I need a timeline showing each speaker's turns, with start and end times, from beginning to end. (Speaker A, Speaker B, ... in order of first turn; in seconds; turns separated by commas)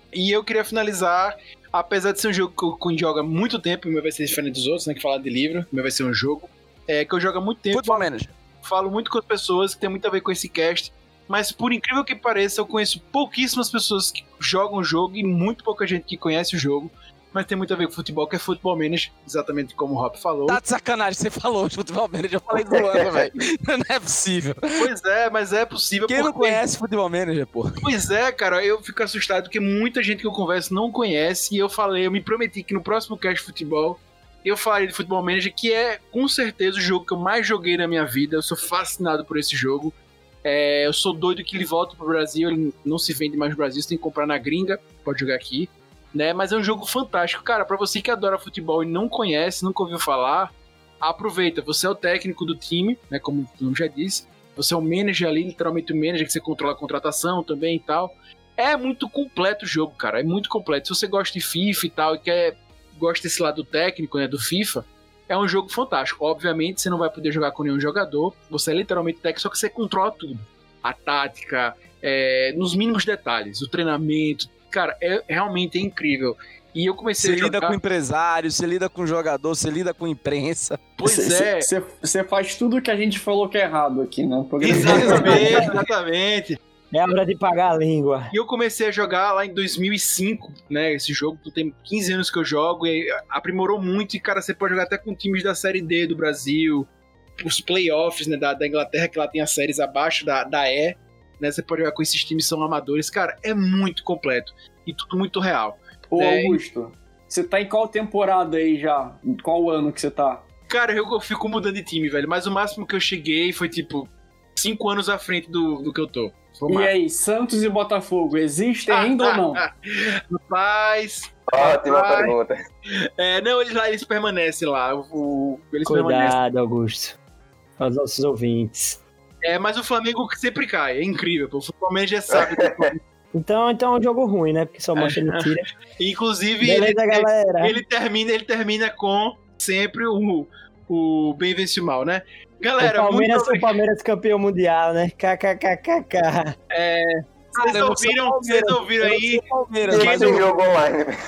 Speaker A: 0.1-8.1, Speaker B: 7.7-8.3, Speaker A: 8.6-20.6, Speaker B: 20.5-24.9, Speaker C: 22.7-23.0, Speaker A: 24.7-26.6, Speaker B: 26.1-27.9, Speaker A: 27.8-77.8, Speaker B: 77.2-80.9, Speaker A: 81.0-81.7, Speaker D: 81.0-85.6, Speaker A: 84.6-86.6, Speaker E: 84.8-85.7, Speaker E: 86.9-88.3, Speaker A: 88.3-106.6, Speaker D: 106.1-110.4, Speaker A: 110.7-116.9, Speaker D: 116.7-119.6, Speaker A: 118.9-122.3, Speaker C: 121.5-122.5, Speaker A: 122.9-126.4, Speaker E: 125.8-127.2, Speaker E: 127.8-129.0, Speaker A: 129.4-133.0, Speaker C: 132.3-132.9, Speaker E: 133.3-135.7, Speaker A: 134.9-143.8, Speaker E: 136.6-137.8, Speaker E: 142.8-146.6, Speaker A: 146.7-150.4, Speaker B: 147.6-150.4, Speaker C: 149.8-151.1